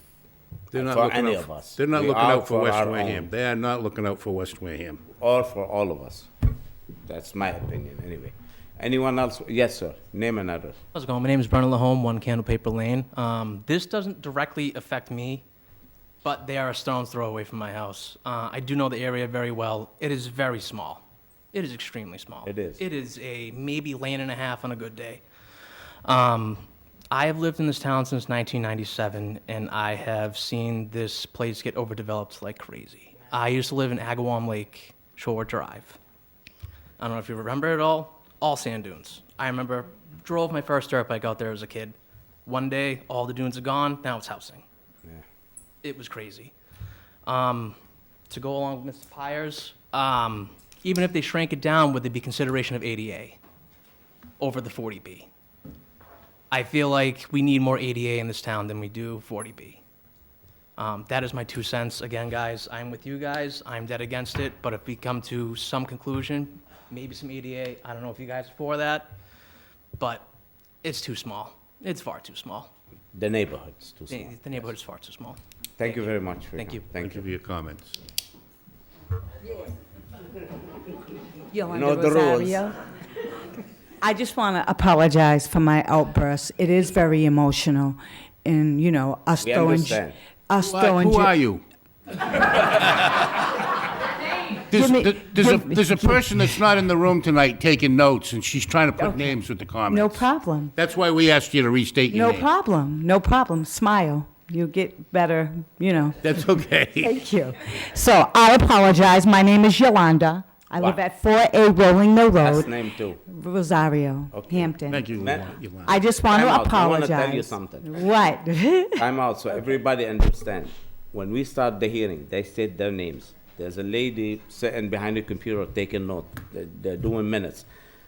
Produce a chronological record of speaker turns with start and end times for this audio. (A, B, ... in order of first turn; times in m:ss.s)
0:00.7-0:05.0 A
0:00.7-0:03.3 B
0:05.2-0:06.3 B
0:07.0-0:10.8 B
0:10.9-0:15.4 C
0:16.2-0:25.2 C
0:22.4-0:22.8 B
0:26.0-0:36.0 C
0:37.0-0:44.6 C
0:45.8-0:46.5 C
0:47.2-0:47.8 C
0:48.3-0:53.4 C
0:54.4-0:55.3 C
0:56.5-0:59.8 C
1:00.8-1:09.1 C
1:10.0-1:10.3 C
1:10.8-1:12.7 C
1:13.1-1:14.4 B
1:14.1-1:16.8 C
1:15.8-1:17.2 B
1:17.0-1:18.0 A
1:21.5-1:22.8 D
1:21.7-1:22.6 B
1:24.0-1:31.3 D
1:29.4-1:30.2 B
1:30.6-1:31.6 A
1:32.6-1:33.1 A
1:34.7-1:42.5 A
1:34.7-1:36.2 D
1:39.9-1:40.7 D
1:42.1-1:46.2 D
1:46.2-1:47.1 A
1:47.0-1:52.7 D
1:52.4-1:53.2 B
1:53.3-1:55.0 D
1:54.3-1:55.5 B
1:54.9-1:56.0 A
1:55.9-1:59.0 D
1:56.3-1:57.9 B
1:59.0-2:07.7 B